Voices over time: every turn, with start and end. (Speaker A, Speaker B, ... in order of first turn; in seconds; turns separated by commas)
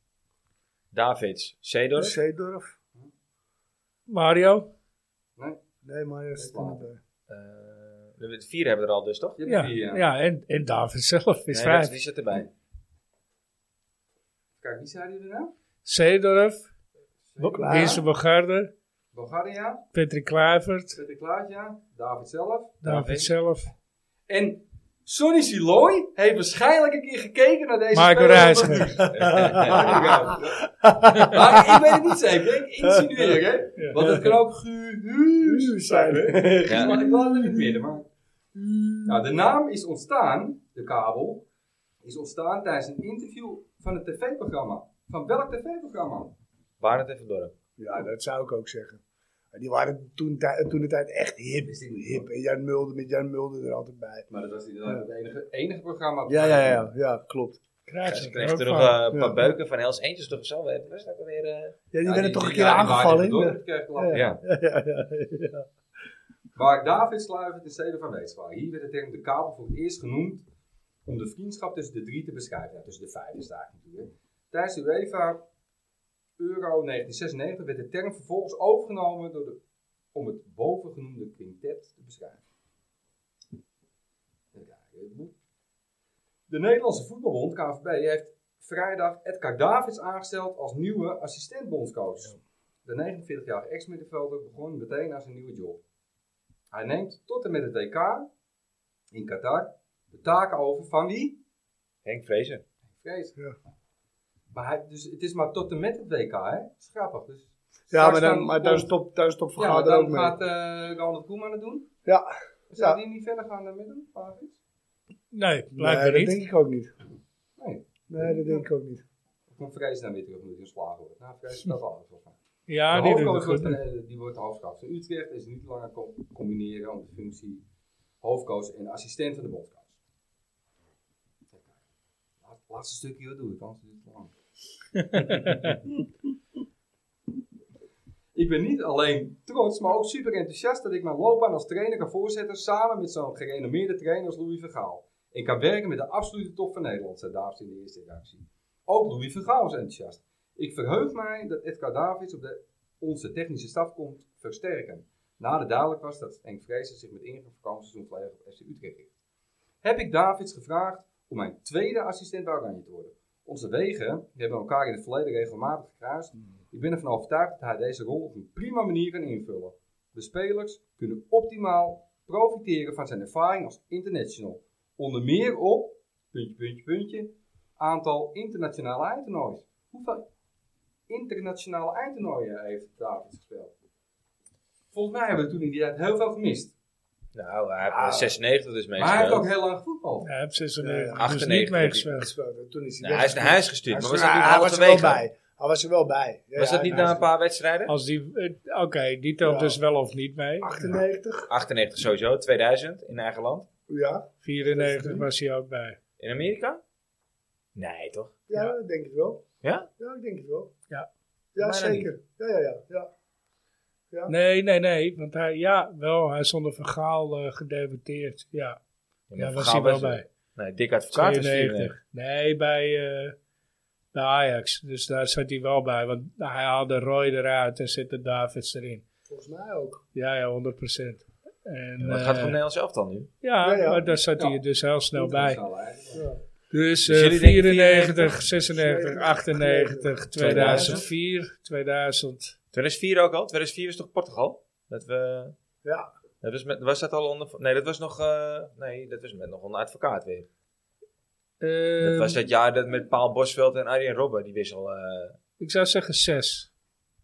Speaker A: 0.9-2.2, Speaker B: 2.0-2.8, Speaker C: 4.1-4.7, Speaker B: 5.8-7.0, Speaker D: 6.4-6.8, Speaker A: 7.3-9.4, Speaker D: 9.4-10.1, Speaker C: 9.5-12.0, Speaker A: 11.5-12.5, Speaker D: 14.6-15.5, Speaker C: 15.8-16.7, Speaker D: 17.3-18.0, Speaker B: 17.4-18.0, Speaker C: 17.6-18.7, Speaker D: 19.1-19.9, Speaker C: 19.9-21.0, Speaker D: 20.9-22.8, Speaker C: 22.8-23.7, Speaker A: 22.8-23.3, Speaker D: 24.3-38.1, Speaker C: 27.9-29.0, Speaker A: 29.1-30.4, Speaker B: 29.2-32.1, Speaker B: 32.8-33.4, Speaker B: 34.0-34.3, Speaker B: 35.4-37.9, Speaker A: 36.7-37.0, Speaker B: 38.5-39.4, Speaker D: 39.1-41.4, Speaker D: 42.0-46.3, Speaker A: 46.8-47.5, Speaker B: 47.8-49.0, Speaker B: 49.5-54.3, Speaker D: 51.6-52.3, Speaker D: 54.3-56.9, Speaker B: 56.3-57.6, Speaker C: 57.9-59.0, Speaker A: 58.0-61.8, Speaker B: 59.1-59.5, Speaker B: 61.9-65.7, Speaker D: 62.0-64.3, Speaker A: 64.1-64.4, Speaker D: 66.5-70.4, Speaker D: 71.0-75.4, Speaker D: 76.4-79.6, Speaker D: 80.1-82.4, Speaker D: 84.5-85.3, Speaker D: 86.5-95.8, Speaker D: 96.7-98.3, Speaker D: 99.1-101.4, Speaker A: 102.0-102.6, Speaker D: 103.0-103.3, Speaker D: 104.5-108.9, Speaker B: 107.9-110.4, Speaker D: 109.6-111.9, Speaker B: 112.0-113.0, Speaker D: 112.7-114.6, Speaker C: 115.3-116.4, Speaker B: 115.7-116.9, Speaker D: 117.6-118.7, Speaker B: 118.1-119.0, Speaker D: 119.5-122.4, Speaker C: 122.7-123.8, Speaker D: 122.9-127.6, Speaker D: 128.2-130.0, Speaker D: 132.4-134.3, Speaker C: 135.0-135.8, Speaker D: 135.2-135.7, Speaker D: 138.3-159.1, Speaker D: 159.8-180.2, Speaker D: 181.1-183.7, Speaker D: 184.9-186.7, Speaker A: 187.3-189.5, Speaker B: 187.8-188.3, Speaker D: 189.0-190.3, Speaker C: 190.2-192.3, Speaker B: 190.8-191.2, Speaker A: 191.2-192.2, Speaker B: 192.2-197.3, Speaker A: 193.0-195.2, Speaker A: 196.6-197.9, Speaker C: 197.9-201.0, Speaker B: 199.4-199.8, Speaker B: 200.6-201.5, Speaker A: 201.5-203.7, Speaker B: 203.9-205.3, Speaker C: 204.4-206.0, Speaker A: 206.2-206.8, Speaker A: 207.8-208.3, Speaker B: 208.5-209.4, Speaker A: 209.6-209.9, Speaker B: 210.0-210.7, Speaker B: 211.6-213.1, Speaker A: 211.6-212.1, Speaker C: 214.3-218.8, Speaker A: 219.3-221.9, Speaker C: 219.4-220.3, Speaker C: 221.1-223.3, Speaker C: 224.1-229.0, Speaker B: 229.3-230.0, Speaker C: 230.1-232.6, Speaker A: 232.0-233.3, Speaker C: 233.4-235.6, Speaker B: 233.6-234.1, Speaker D: 235.1-236.3, Speaker B: 236.1-236.4, Speaker C: 236.7-242.6, Speaker A: 237.1-238.4, Speaker B: 238.7-241.0, Speaker A: 240.4-241.1, Speaker A: 242.7-245.6, Speaker B: 245.8-246.1, Speaker A: 246.4-250.5, Speaker C: 251.6-252.4, Speaker A: 252.0-255.4, Speaker C: 255.6-256.7